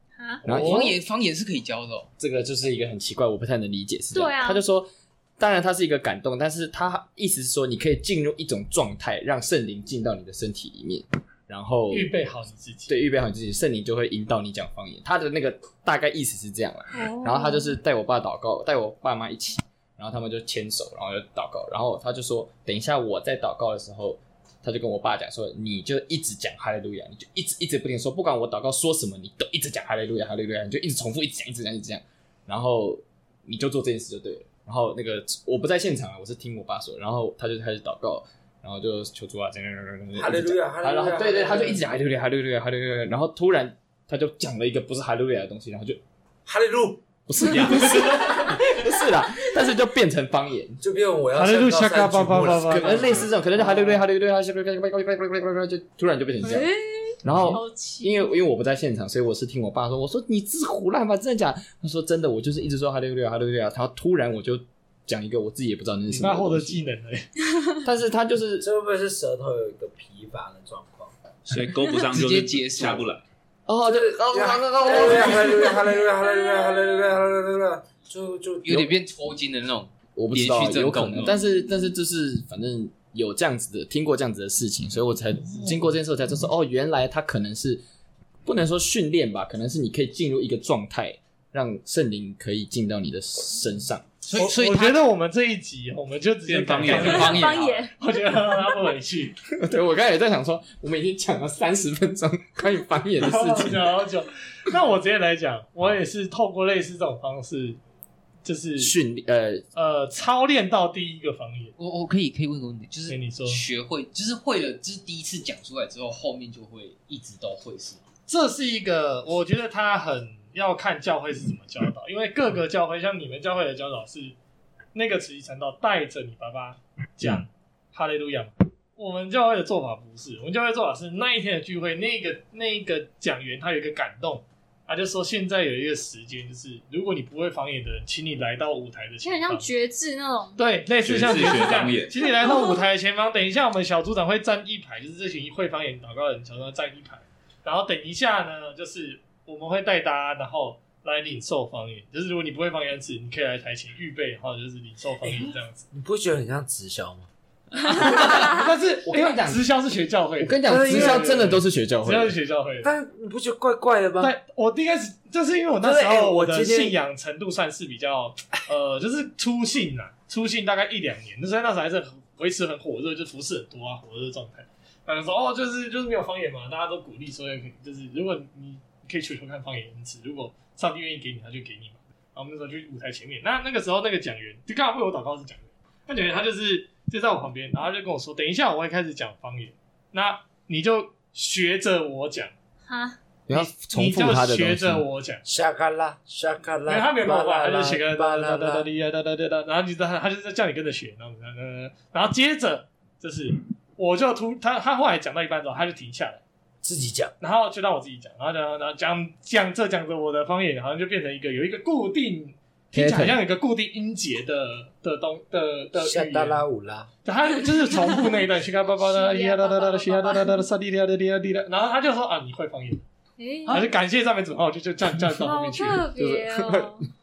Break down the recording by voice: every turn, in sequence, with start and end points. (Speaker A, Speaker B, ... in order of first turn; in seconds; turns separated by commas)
Speaker A: 0.2-0.5, Speaker B: 0.4-0.9, Speaker C: 0.5-2.1, Speaker D: 0.5-0.9, Speaker B: 2.2-12.1, Speaker A: 4.1-4.6, Speaker D: 11.9-12.9, Speaker B: 12.9-46.0, Speaker A: 16.9-17.8, Speaker E: 40.1-41.8, Speaker E: 46.5-47.0, Speaker B: 47.3-50.8, Speaker E: 50.8-53.3, Speaker D: 51.3-53.6, Speaker B: 52.6-56.7, Speaker A: 56.4-58.3, Speaker B: 57.2-66.8, Speaker D: 66.1-67.3, Speaker B: 67.8-68.7, Speaker E: 68.6-71.1, Speaker F: 71.5-73.2, Speaker C: 72.1-73.1, Speaker B: 73.7-75.8, Speaker E: 73.8-78.9, Speaker C: 78.6-81.3, Speaker B: 80.2-87.8, Speaker D: 85.5-85.7, Speaker B: 88.4-94.2, Speaker C: 94.2-95.0, Speaker D: 94.3-99.3, Speaker F: 96.5-97.5, Speaker C: 96.8-97.8, Speaker A: 97.0-97.9, Speaker B: 99.6-104.0, Speaker D: 103.2-107.8, Speaker D: 108.4-109.0, Speaker B: 108.8-109.6, Speaker D: 109.7-111.7, Speaker C: 111.8-118.0, Speaker D: 113.1-113.6, Speaker D: 118.3-124.3, Speaker D: 124.9-139.7, Speaker A: 139.2-140.6, Speaker D: 140.6-155.8, Speaker F: 141.0-142.2, Speaker A: 142.2-142.8, Speaker E: 155.9-157.3, Speaker D: 157.9-162.9, Speaker B: 159.1-159.6, Speaker B: 160.4-162.3, Speaker E: 160.6-161.5, Speaker E: 162.8-164.3, Speaker D: 164.2-192.5, Speaker E: 165.8-166.9, Speaker A: 192.9-193.2, Speaker B: 193.5-195.0, Speaker D: 193.5-195.4, Speaker E: 195.4-198.9, Speaker D: 196.8-206.4, Speaker E: 206.8-207.3, Speaker D: 207.4-216.6, Speaker B: 212.9-213.4, Speaker E: 215.9-217.1, Speaker D: 217.2-223.0, Speaker A: 219.0-220.6, Speaker A: 223.4-223.9, Speaker D: 223.7-226.1, Speaker A: 225.3-227.1, Speaker B: 226.2-227.0